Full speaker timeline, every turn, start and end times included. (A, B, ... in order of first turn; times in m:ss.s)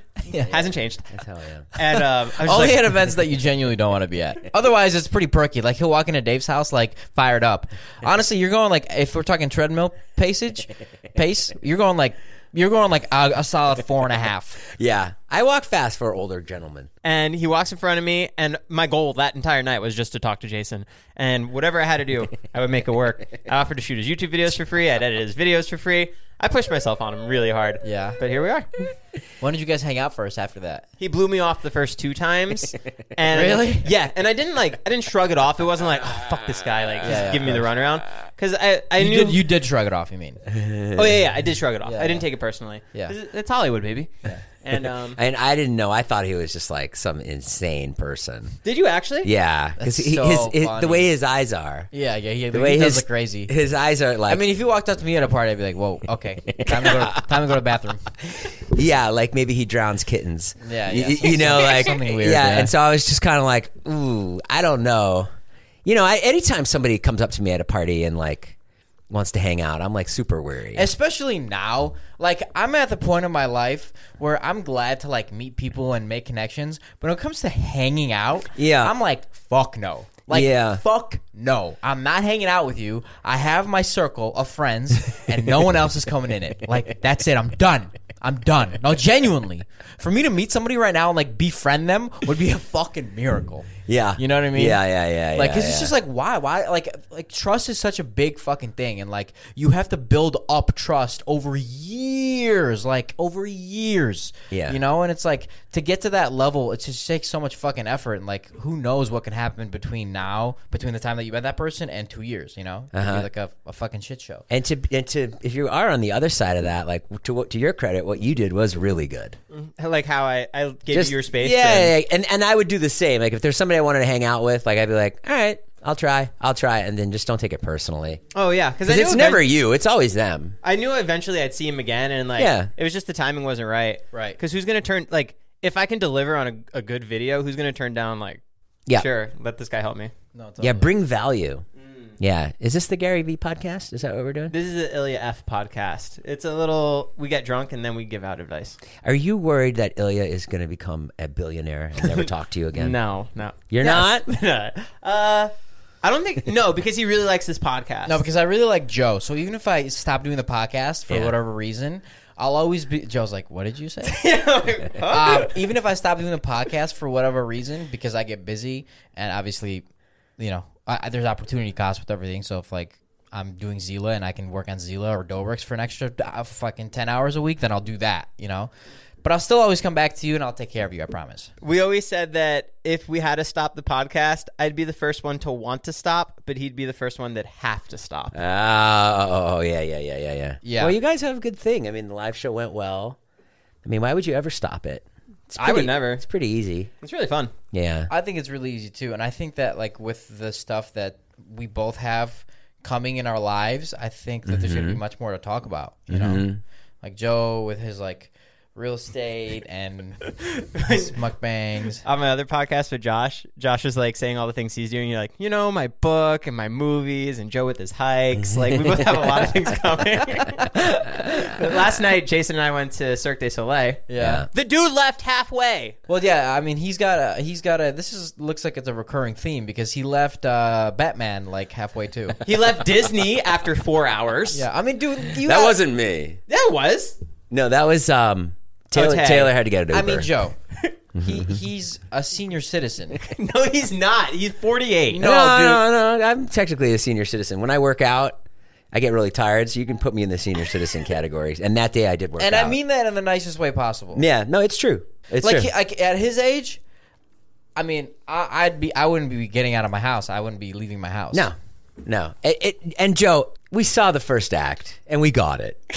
0:00.3-0:01.7 A
0:00.5-0:01.2 B
0:01.7-0:03.0 B
0:02.4-0:14.6 C
0:14.7-0:16.9 A
0:17.0-0:28.9 B
0:27.8-0:28.2 C
0:29.4-0:30.9 C
0:31.0-0:39.4 B
0:33.3-0:33.9 C
0:37.0-0:37.7 C
0:39.0-0:40.4 C
0:40.5-0:41.2 A
0:40.9-0:45.2 B
0:41.8-0:42.2 C
0:45.1-0:48.6 A
0:48.6-0:49.3 B
0:49.2-0:51.9 A
0:49.8-0:51.1 C
0:51.9-0:53.5 C
0:52.5-0:54.4 A
0:54.3-0:58.1 C
0:56.6-0:57.5 A
0:58.2-1:05.3 A
1:00.6-1:02.7 C
1:05.8-1:08.6 A
1:09.1-1:10.9 A
1:10.7-1:34.8 C
1:18.5-1:18.9 A
1:20.3-1:20.8 A
1:33.9-1:35.9 A
1:35.3-1:54.4 C
1:44.5-1:44.8 A
1:52.9-1:53.3 A
1:54.5-1:59.4 A
1:59.5-2:01.9 B
2:00.9-2:08.2 A
2:08.3-2:09.4 B
2:08.8-2:10.6 A
2:10.6-2:18.4 B
2:12.4-2:12.7 A
2:14.1-2:14.4 C
2:19.0-2:20.1 B
2:20.3-2:20.9 C
2:20.6-2:21.6 A
2:21.8-2:22.2 B
2:22.2-2:24.5 A
2:24.5-2:28.8 B
2:29.0-2:33.0 A
2:32.7-2:35.5 B
2:33.7-2:34.3 A
2:36.0-2:38.2 B
2:38.0-2:44.2 C
2:41.1-2:41.3 A
2:44.0-2:45.7 B
2:45.0-2:49.8 C
2:50.4-2:58.7 C
2:59.2-3:01.5 C
3:01.6-3:08.4 B
3:08.3-3:13.2 A
3:10.6-3:11.0 C
3:13.8-3:16.9 A
3:15.6-3:16.2 B
3:17.0-3:17.5 B
3:17.7-3:18.1 A
3:18.1-3:26.5 C
3:24.4-3:25.0 A
3:26.1-3:26.6 A
3:27.0-3:32.0 C
3:30.6-3:31.1 B
3:32.0-3:46.0 B
3:38.4-3:39.3 A
3:44.1-3:44.4 C
3:44.2-3:44.5 A
3:46.1-3:52.4 C
3:52.4-3:54.6 B
3:54.5-3:55.8 C
3:55.4-3:56.4 A
3:56.5-3:57.2 B
3:57.5-4:00.3 A
3:58.9-3:59.5 B
3:59.9-4:00.6 C
4:01.1-4:01.6 A
4:01.2-4:03.2 C
4:03.2-4:05.2 B
4:05.1-4:05.8 C
4:05.2-4:08.4 A
4:08.9-4:12.8 A
4:12.4-4:14.2 C
4:14.1-4:15.7 A
4:15.4-4:16.8 C
4:17.8-4:21.5 C
4:21.3-4:25.8 A